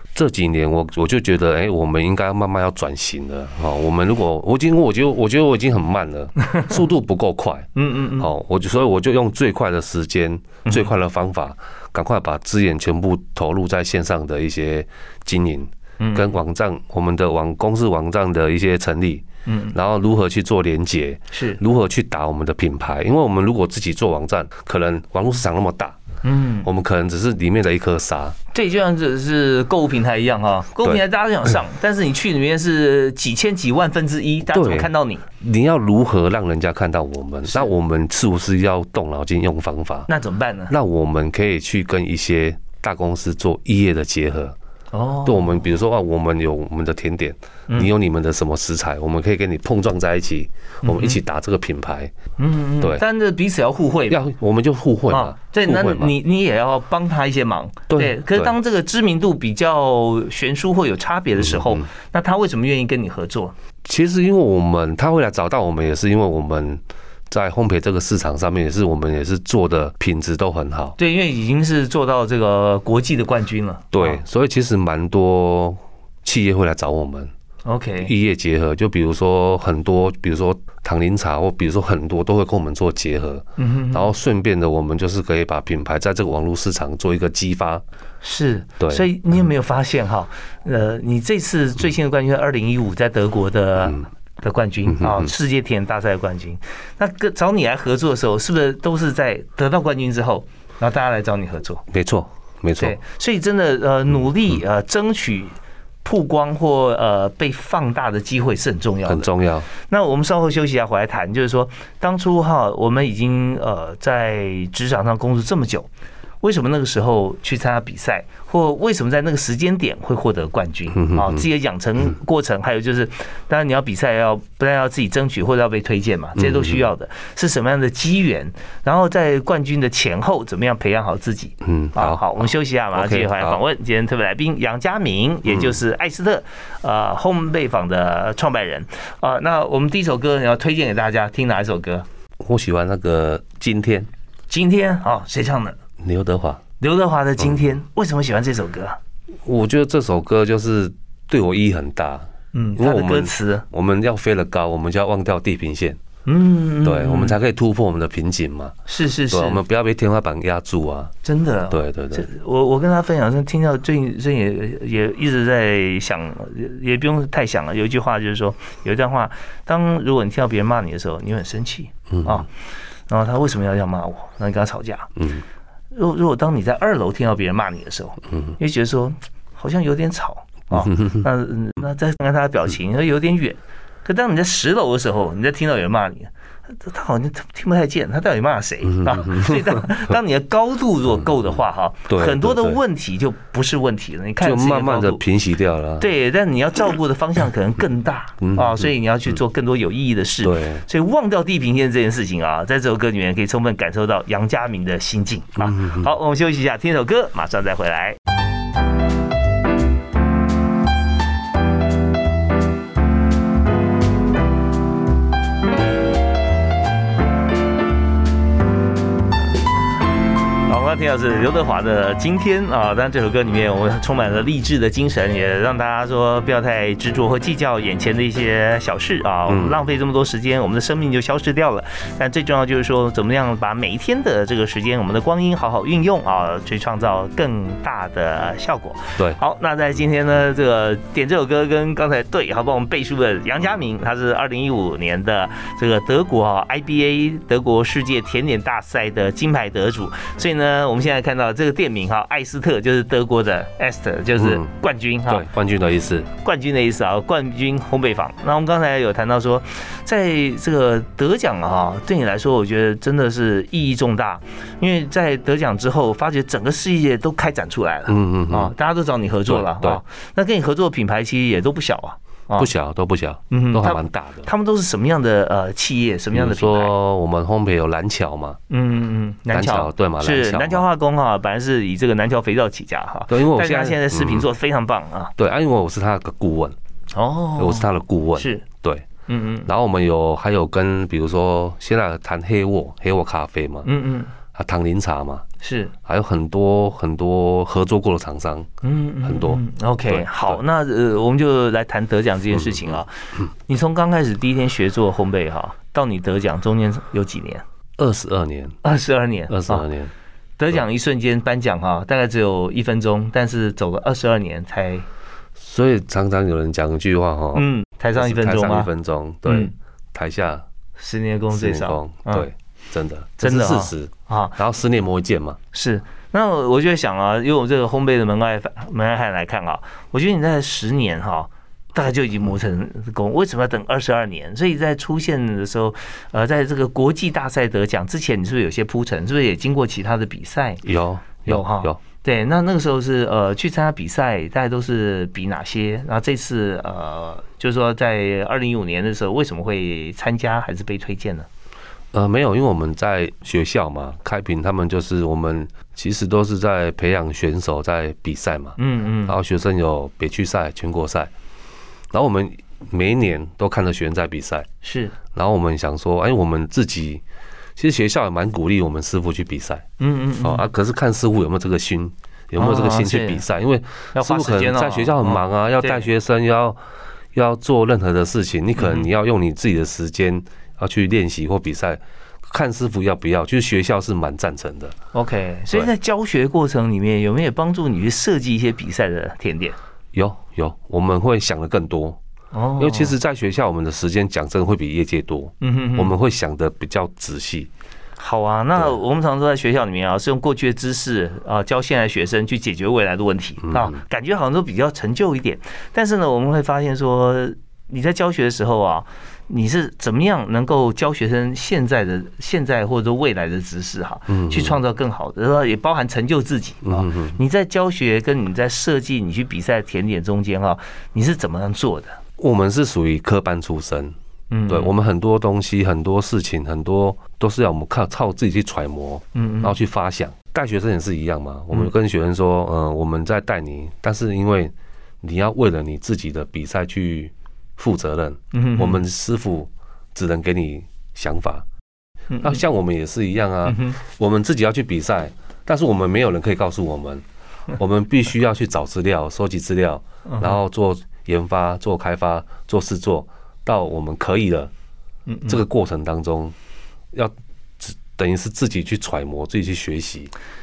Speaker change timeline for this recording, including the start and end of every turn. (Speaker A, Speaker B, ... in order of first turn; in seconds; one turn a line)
Speaker A: 0.1-26.0
Speaker B: 7.8-8.3
Speaker B: 16.0-16.3
Speaker B: 19.5-19.8
Speaker B: 21.3-21.6
Speaker B: 26.2-26.7
Speaker A: 26.6-28.4
Speaker B: 28.5-35.2
Speaker A: 34.5-40.1
Speaker B: 40.1-40.7
Speaker A: 40.7-44.6
Speaker B: 44.9-45.6
Speaker A: 45.2-52.1
Speaker B: 50.8-51.2
Speaker B: 52.4-54.2
Speaker A: 54.1-56.1
Speaker B: 55.1-63.5
Speaker A: 57.9-58.5
Speaker A: 61.4-61.9
Speaker A: 63.9-71.0
Speaker B: 71.0-74.2
Speaker A: 73.9-77.3
Speaker B: 77.7-78.1
Speaker A: 78.0-87.8
Speaker B: 83.6-84.1
Speaker B: 88.2-101.8
Speaker A: 88.8-89.1
Speaker A: 94.9-95.3
Speaker A: 101.9-103.0
Speaker B: 102.8-115.9
Speaker A: 109.1-109.7
Speaker B: 116.4-142.1
Speaker A: 120.9-121.4
Speaker A: 126.4-126.8
Speaker A: 131.6-133.6
Speaker A: 135.5-135.8
Speaker A: 142.4-144.1
Speaker B: 144.5-145.8
Speaker A: 146.0-146.6
Speaker B: 146.8-149.0
Speaker A: 149.4-156.0
Speaker B: 152.5-153.7
Speaker B: 156.3-157.4
Speaker A: 156.8-158.8
Speaker B: 158.9-159.6
Speaker A: 159.3-161.1
Speaker B: 161.2-172.5
Speaker A: 161.7-162.3
Speaker A: 172.1-172.4
Speaker B: 173.1-175.2
Speaker A: 175.2-175.4
Speaker B: 175.9-195.2
Speaker A: 180.7-181.2
Speaker A: 188.8-189.9
Speaker A: 192.1-192.8
Speaker A: 194.4-196.1
Speaker B: 196.0-208.2
Speaker A: 198.4-198.9
Speaker A: 200.4-200.8
Speaker A: 205.6-206.1
Speaker B: 220.7-255.5
Speaker A: 229.5-229.8
Speaker A: 254.4-254.7
Speaker A: 255.3-256.3
Speaker B: 256.4-272.7
Speaker A: 268.1-268.7
Speaker A: 269.5-270.0
Speaker A: 272.6-274.5
Speaker B: 273.5-276.9
Speaker A: 276.3-278.6
Speaker B: 278.7-285.3
Speaker A: 279.5-280.9
Speaker A: 283.3-284.5
Speaker A: 285.4-286.8
Speaker B: 287.1-288.6
Speaker A: 287.6-289.1
Speaker B: 289.3-289.7
Speaker A: 289.7-293.9
Speaker B: 293.8-294.3
Speaker A: 294.5-295.4
Speaker B: 295.6-295.9
Speaker A: 296.1-298.7
Speaker B: 298.8-303.1
Speaker A: 299.2-300.6
Speaker B: 303.7-307.6
Speaker A: 308.0-308.8
Speaker B: 308.8-309.9
Speaker A: 309.5-310.1
Speaker B: 310.6-315.1
Speaker A: 315.6-320.6
Speaker B: 317.6-318.9
Speaker B: 319.4-319.7
Speaker B: 321.0-322.5
Speaker A: 321.5-325.6
Speaker B: 323.4-324.6
Speaker B: 325.7-340.8
Speaker A: 340.8-342.0
Speaker B: 341.5-351.5
Speaker A: 352.1-361.3
Speaker B: 358.8-359.4
Speaker A: 362.1-364.7
Speaker B: 364.8-365.1
Speaker A: 365.3-367.2
Speaker A: 367.8-369.9
Speaker B: 370.0-370.7
Speaker A: 370.4-376.8
Speaker B: 372.6-373.4
Speaker B: 374.1-376.1
Speaker A: 377.3-384.9
Speaker B: 378.8-379.1
Speaker B: 385.1-389.8
Speaker A: 390.1-392.2
Speaker B: 392.5-393.1
Speaker A: 392.8-397.7
Speaker B: 395.6-396.1
Speaker B: 398.2-422.2
Speaker A: 403.6-404.0
Speaker A: 414.3-414.8
Speaker A: 416.8-417.4
Speaker A: 422.4-424.1
Speaker B: 424.5-424.9
Speaker A: 424.7-441.6
Speaker B: 429.4-429.8
Speaker B: 438.5-439.0
Speaker B: 442.3-442.6
Speaker A: 442.4-447.2
Speaker B: 443.7-444.0
Speaker A: 447.8-454.7
Speaker B: 450.3-450.6
Speaker B: 455.3-455.6
Speaker A: 455.5-456.6
Speaker A: 457.1-460.3